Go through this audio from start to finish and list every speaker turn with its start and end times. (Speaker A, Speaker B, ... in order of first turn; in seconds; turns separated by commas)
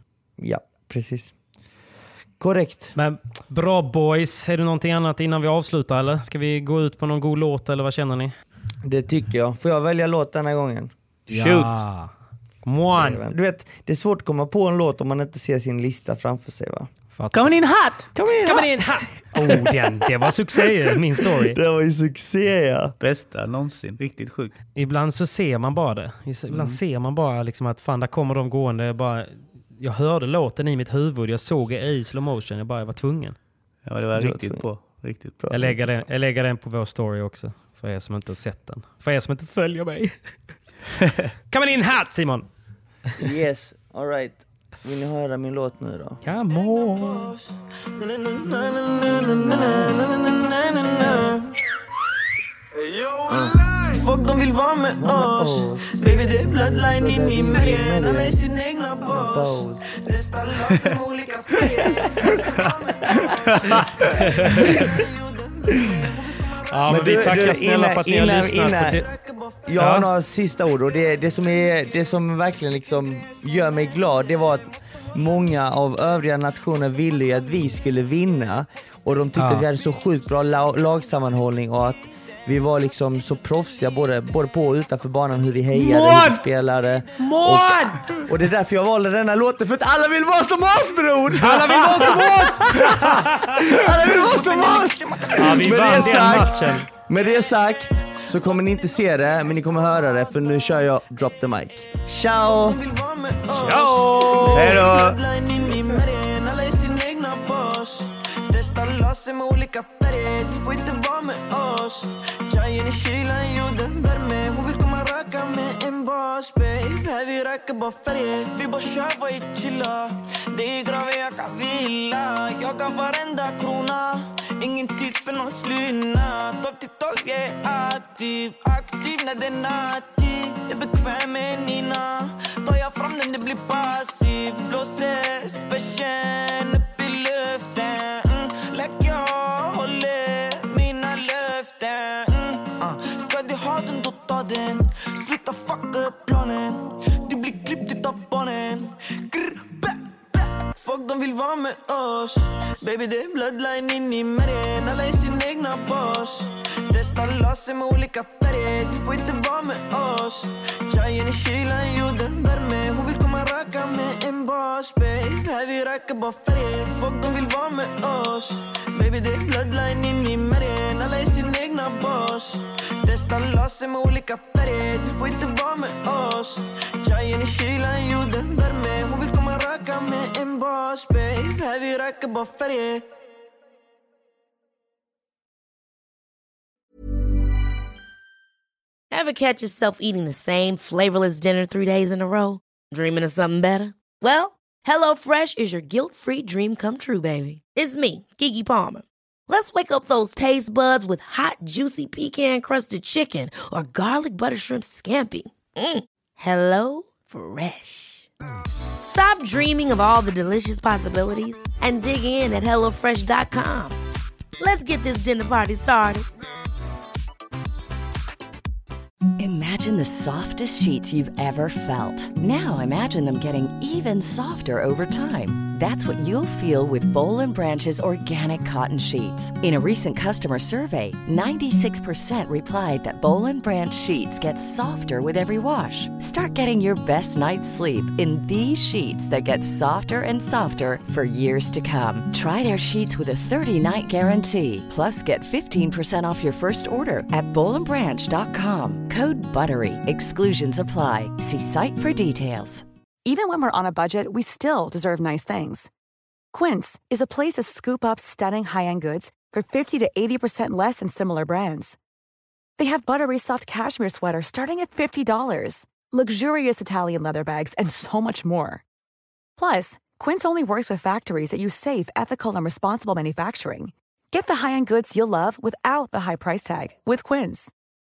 Speaker A: 0.4-1.3, Speaker A: 2.4-2.9, Speaker B: 3.0-8.3, Speaker A: 8.8-10.9, Speaker C: 11.3-11.8, Speaker B: 11.3-12.1, Speaker B: 12.7-13.2, Speaker A: 12.9-16.9, Speaker B: 17.1-17.5, Speaker C: 17.3-18.1, Speaker A: 18.1-19.9, Speaker B: 18.5-21.6, Speaker A: 21.2-22.9, Speaker C: 23.0-24.6, Speaker B: 24.8-33.4, Speaker C: 26.5-26.8, Speaker C: 33.9-35.4, Speaker A: 34.1-34.6, Speaker A: 35.4-36.1, Speaker B: 35.5-40.1, Speaker B: 41.5-42.5, Speaker A: 43.2-46.2, Speaker B: 46.2-47.3, Speaker D: 46.6-51.6, Speaker A: 49.4-49.9, Speaker D: 52.8-67.6, Speaker A: 55.0-58.4, Speaker A: 59.1-59.9, Speaker C: 63.3-63.8, Speaker B: 64.4-64.8, Speaker B: 66.7-69.0, Speaker A: 66.9-69.0, Speaker D: 68.6-69.7, Speaker A: 69.7-102.8, Speaker B: 69.8-70.1, Speaker B: 79.4-79.7, Speaker B: 85.8-86.4, Speaker B: 87.2-88.2, Speaker B: 91.4-93.8, Speaker D: 93.9-96.6, Speaker B: 95.3-96.9, Speaker D: 102.3-183.1, Speaker B: 103.6-104.7, Speaker C: 104.5-105.2, Speaker E: 189.1-208.3, Speaker E: 209.1-214.0, Speaker E: 214.6-216.3, Speaker F: 219.4-252.8, Speaker G: 253.2-255.9, Speaker G: 256.5-262.0, Speaker G: 262.8-268.8, Speaker G: 269.6-277.7